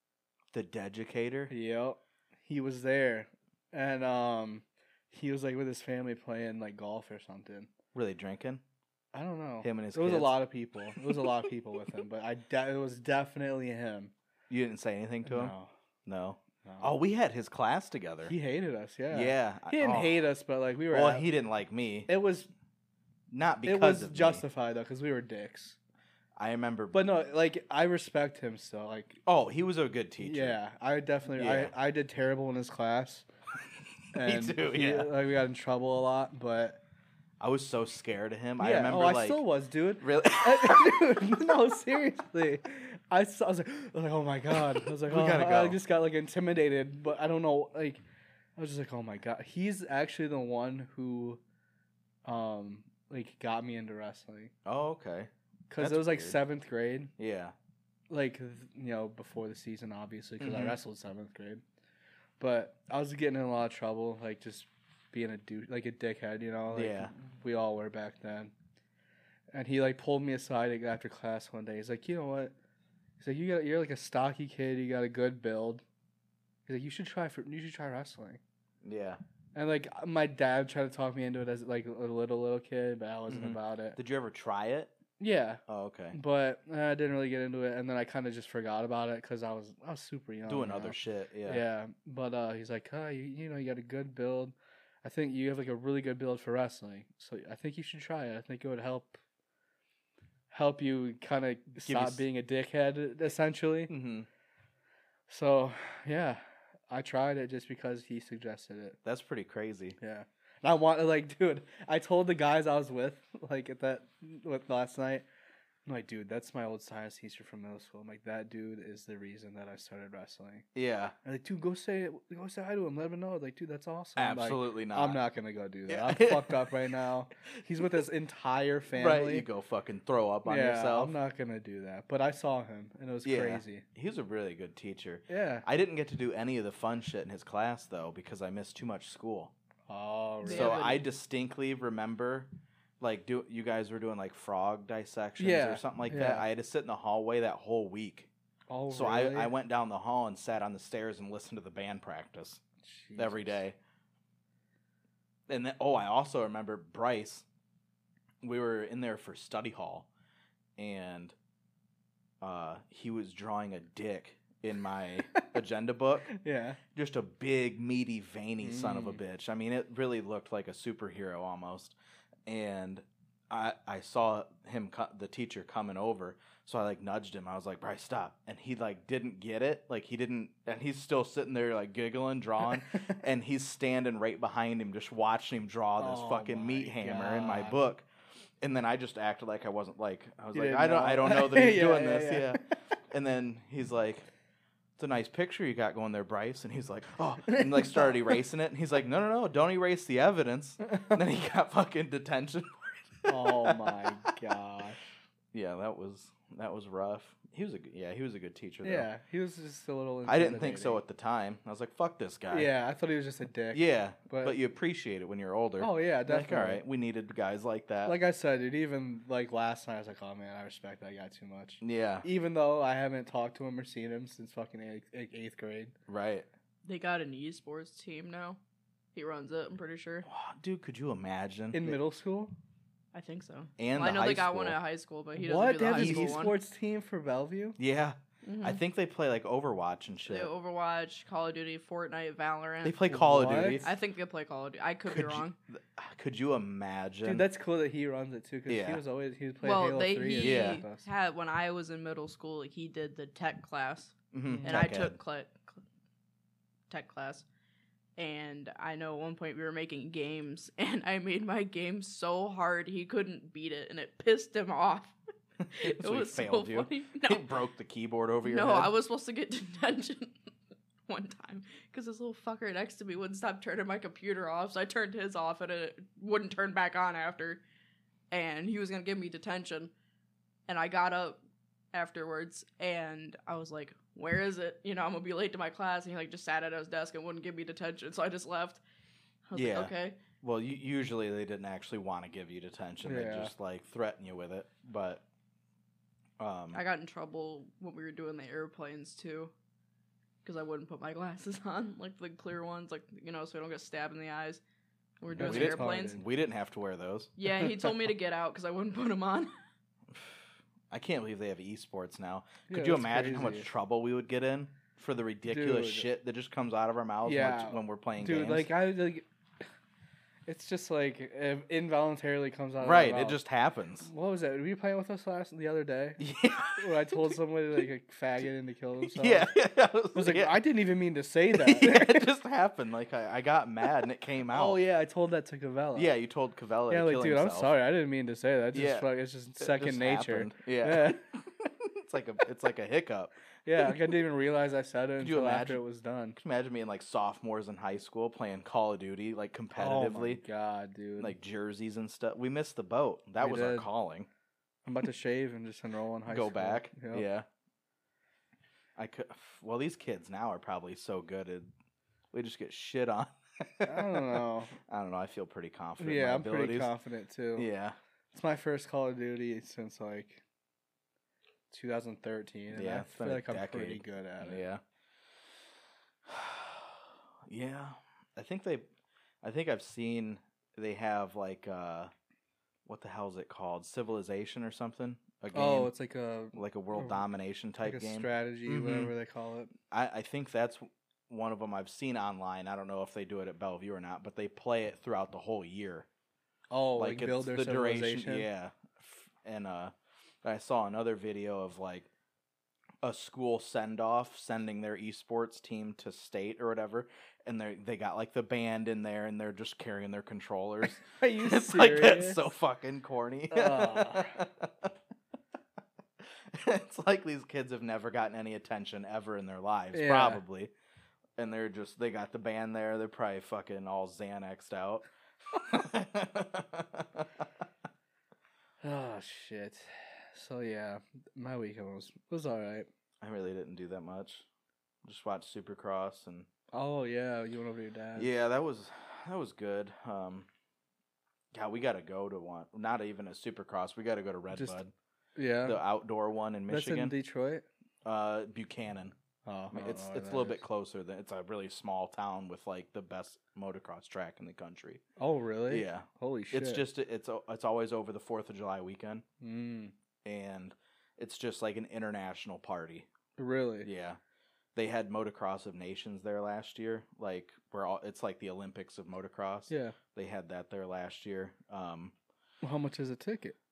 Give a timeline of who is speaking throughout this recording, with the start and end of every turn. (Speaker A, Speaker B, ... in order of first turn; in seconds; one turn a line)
Speaker A: 0.5-1.5
Speaker B: 1.5-7.7
Speaker A: 7.9-8.6
Speaker B: 9.1-14.1
Speaker A: 9.6-10.4
Speaker A: 14.5-15.5
Speaker B: 15.2-15.7
Speaker A: 16.1-18.3
Speaker B: 16.6-16.9
Speaker B: 18.2-21.3
Speaker A: 19.1-20.2
Speaker A: 20.9-22.1
Speaker B: 22.1-22.5
Speaker A: 23.3-24.4
Speaker B: 23.6-25.8
Speaker A: 26.4-27.0
Speaker B: 26.9-29.2
Speaker A: 29.2-30.6
Speaker B: 30.2-33.2
Speaker A: 31.3-31.7
Speaker B: 34.1-36.8
Speaker A: 34.1-35.1
Speaker A: 37.4-39.4
Speaker B: 38.6-48.0
Speaker A: 40.0-41.2
Speaker A: 44.5-45.8
Speaker B: 48.6-51.4
Speaker B: 52.2-54.5
Speaker A: 54.6-56.4
Speaker B: 55.7-57.1
Speaker A: 57.2-57.5
Speaker B: 58.1-61.6
Speaker A: 60.4-60.8
Speaker B: 62.4-68.5
Speaker A: 66.7-67.1
Speaker B: 69.5-72.5
Speaker B: 73.2-75.8
Speaker B: 76.7-78.4
Speaker A: 78.8-79.2
Speaker B: 79.5-84.0
Speaker A: 83.3-84.9
Speaker B: 85.2-99.2
Speaker A: 85.7-86.2
Speaker A: 90.5-91.6
Speaker B: 100.5-103.9
Speaker A: 101.8-102.2
Speaker A: 103.9-104.3
Speaker B: 105.3-109.0
Speaker A: 109.0-110.0
Speaker B: 110.0-115.2
Speaker B: 115.8-120.7
Speaker A: 120.7-121.1
Speaker B: 121.2-129.4
Speaker A: 124.2-125.2
Speaker A: 125.9-126.9
Speaker A: 127.8-128.0
Speaker A: 128.9-131.2
Speaker B: 130.4-133.8
Speaker A: 133.2-139.5
Speaker B: 135.3-135.6
Speaker B: 139.9-140.9
Speaker C: 140.4-141.0
Speaker A: 140.4-148.3
Speaker B: 145.4-146.4
Speaker B: 148.7-149.5
Speaker A: 148.9-152.6
Speaker B: 152.8-153.6
Speaker A: 153.2-153.8
Speaker A: 155.5-157.4
Speaker A: 158.4-160.1
Speaker A: 160.8-161.3
Speaker A: 162.4-166.3
Speaker B: 166.2-166.8
Speaker A: 166.9-171.9
Speaker B: 168.6-169.2
Speaker A: 172.4-188.1
Speaker B: 182.9-183.2
Speaker B: 186.0-187.8
Speaker A: 188.6-194.2
Speaker B: 190.5-192.6
Speaker A: 195.0-204.3
Speaker B: 197.4-198.3
Speaker B: 203.3-205.0
Speaker A: 205.5-209.1
Speaker B: 208.8-211.0
Speaker A: 210.2-212.7
Speaker B: 212.5-214.6
Speaker A: 213.7-218.2
Speaker B: 215.8-216.8
Speaker B: 218.0-225.9
Speaker A: 221.8-222.2
Speaker A: 226.1-226.5
Speaker C: 226.8-228.6
Speaker C: 229.1-230.2
Speaker A: 230.2-232.0
Speaker B: 231.7-232.5
Speaker C: 233.1-236.6
Speaker A: 233.8-234.8
Speaker B: 235.4-237.8
Speaker A: 235.8-236.4
Speaker A: 237.8-240.5
Speaker C: 238.4-238.8
Speaker C: 240.2-245.5
Speaker A: 242.8-243.9
Speaker B: 243.1-243.9
Speaker A: 245.1-247.5
Speaker B: 247.2-251.1
Speaker A: 248.7-249.0
Speaker C: 249.6-255.8
Speaker A: 250.4-250.8
Speaker A: 254.3-255.2
Speaker B: 254.4-254.8
Speaker C: 256.9-257.4
Speaker C: 258.2-265.1
Speaker C: 265.7-267.5
Speaker A: 265.8-268.9
Speaker C: 268.4-270.4
Speaker C: 271.1-277.6
Speaker C: 278.3-279.9
Speaker C: 280.7-281.4
Speaker C: 281.9-288.8
Speaker C: 289.4-290.2
Speaker A: 289.5-295.2
Speaker B: 293.0-293.5
Speaker A: 296.4-296.8
Speaker C: 296.7-299.5
Speaker C: 300.4-304.6
Speaker C: 305.2-306.2
Speaker B: 305.3-306.2
Speaker A: 305.4-307.9
Speaker C: 307.4-309.5
Speaker A: 310.1-318.7
Speaker B: 312.7-313.7
Speaker B: 315.5-316.1
Speaker B: 317.2-319.2
Speaker B: 320.5-323.4
Speaker A: 322.8-324.1
Speaker B: 324.0-326.2
Speaker A: 326.2-327.3
Speaker B: 326.7-329.6
Speaker A: 329.0-330.6
Speaker B: 330.1-332.3
Speaker A: 331.5-334.8
Speaker B: 334.5-336.1
Speaker A: 335.9-337.7
Speaker B: 336.9-341.2
Speaker A: 338.7-344.0
Speaker B: 343.6-346.4
Speaker A: 345.2-345.8
Speaker A: 346.4-350.4
Speaker B: 349.7-351.4
Speaker A: 351.2-354.3
Speaker B: 353.4-353.9
Speaker B: 354.8-357.3
Speaker A: 356.3-357.4
Speaker A: 358.9-361.7
Speaker A: 362.3-366.9
Speaker B: 363.8-364.7
Speaker B: 366.0-367.7
Speaker A: 367.6-367.9
Speaker B: 368.3-370.4
Speaker B: 371.7-374.6
Speaker A: 372.7-374.8
Speaker A: 376.2-378.9
Speaker A: 379.4-382.1
Speaker A: 382.9-385.9
Speaker B: 385.5-387.2
Speaker A: 386.5-389.1
Speaker B: 387.8-389.7
Speaker A: 389.9-396.1
Speaker B: 396.7-398.5
Speaker A: 397.0-402.1
Speaker A: 403.0-414.9
Speaker B: 411.0-412.5
Speaker B: 413.5-414.4
Speaker A: 416.2-420.7
Speaker B: 419.9-420.4
Speaker A: 421.4-427.4
Speaker B: 428.8-432.9
Speaker A: 433.2-434.4
Speaker A: 435.0-436.5
Speaker B: 436.7-438.3
Speaker A: 438.1-440.5
Speaker A: 441.5-444.9
Speaker B: 444.5-444.8
Speaker B: 445.4-445.8
Speaker A: 445.6-447.1
Speaker B: 446.7-447.6
Speaker A: 448.0-449.1
Speaker B: 449.4-450.6
Speaker A: 449.7-455.0
Speaker B: 455.2-456.8
Speaker A: 455.7-459.2
Speaker B: 459.4-459.9
Speaker A: 460.2-463.1
Speaker B: 463.4-463.9
Speaker A: 463.8-464.2
Speaker A: 464.7-472.1
Speaker B: 469.7-469.9
Speaker B: 472.6-473.6